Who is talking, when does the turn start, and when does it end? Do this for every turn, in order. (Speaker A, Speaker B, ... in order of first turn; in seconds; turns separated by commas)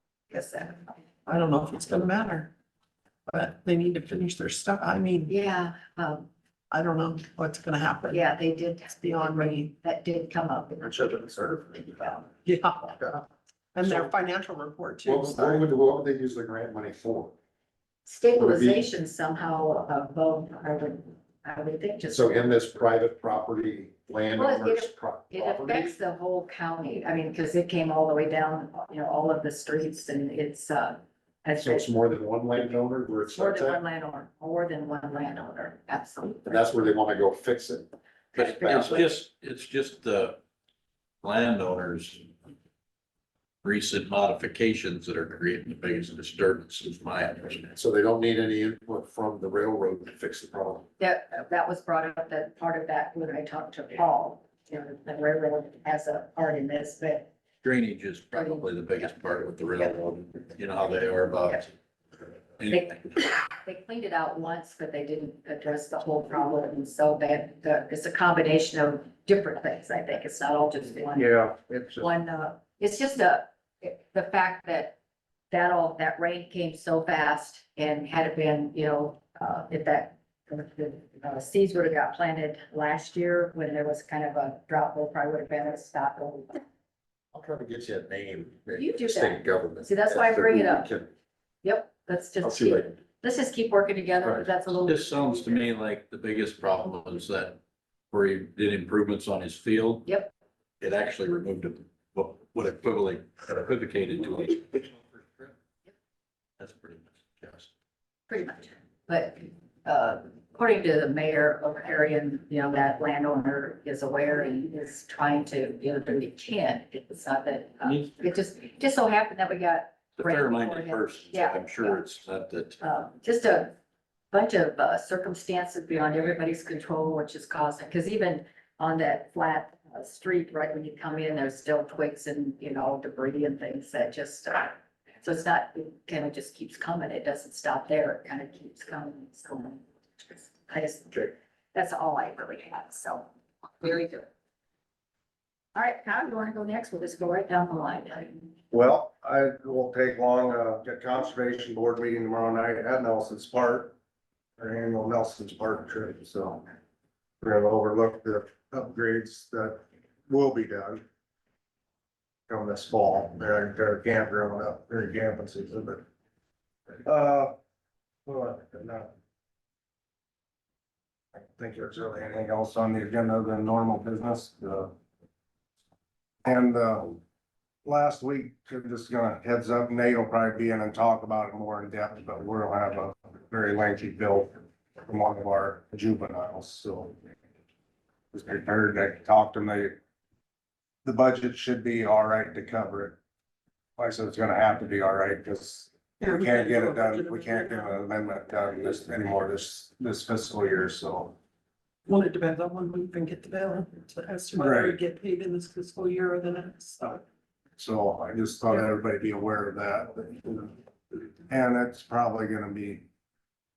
Speaker A: 0.3-0.8, Speaker B: 1.3-2.5, Speaker B: 3.3-5.3, Speaker A: 5.3-6.3, Speaker B: 6.7-8.3, Speaker A: 8.1-12.3, Speaker B: 9.0-9.7, Speaker B: 12.4-13.2, Speaker B: 13.7-15.7, Speaker C: 15.1-17.3, Speaker A: 18.1-22.5, Speaker C: 18.4-18.8, Speaker C: 22.1-25.9, Speaker A: 24.4-31.9, Speaker C: 31.6-33.8, Speaker A: 33.3-36.8, Speaker C: 36.5-37.9, Speaker A: 38.4-39.1, Speaker D: 38.4-40.4, Speaker D: 41.2-42.3, Speaker D: 43.6-47.8, Speaker C: 47.8-50.9, Speaker A: 51.0-57.3, Speaker D: 57.6-61.7, Speaker A: 58.3-58.7, Speaker D: 62.6-63.0, Speaker A: 62.7-75.0, Speaker E: 71.2-72.1, Speaker A: 75.5-86.6, Speaker C: 87.3-91.1, Speaker A: 88.7-90.9, Speaker A: 91.6-95.6, Speaker C: 92.4-92.9, Speaker C: 94.2-94.5, Speaker D: 94.9-97.6, Speaker D: 98.1-100.0, Speaker A: 100.1-100.3, Speaker D: 100.8-105.5, Speaker D: 106.6-107.7, Speaker A: 108.3-122.0, Speaker D: 117.8-118.1, Speaker D: 120.2-122.8, Speaker A: 122.8-123.7, Speaker A: 124.3-144.3, Speaker A: 145.8-148.5, Speaker E: 148.7-153.9, Speaker E: 154.6-156.7, Speaker E: 157.4-161.0, Speaker E: 162.5-166.0, Speaker E: 167.0-167.5, Speaker E: 168.3-169.1, Speaker E: 171.3-174.9, Speaker E: 176.4-177.2, Speaker E: 177.8-187.2, Speaker E: 188.3-189.9, Speaker E: 191.1-193.2, Speaker E: 194.0-201.3, Speaker B: 196.2-198.0, Speaker B: 202.1-207.2, Speaker E: 204.6-205.0, Speaker E: 207.8-213.1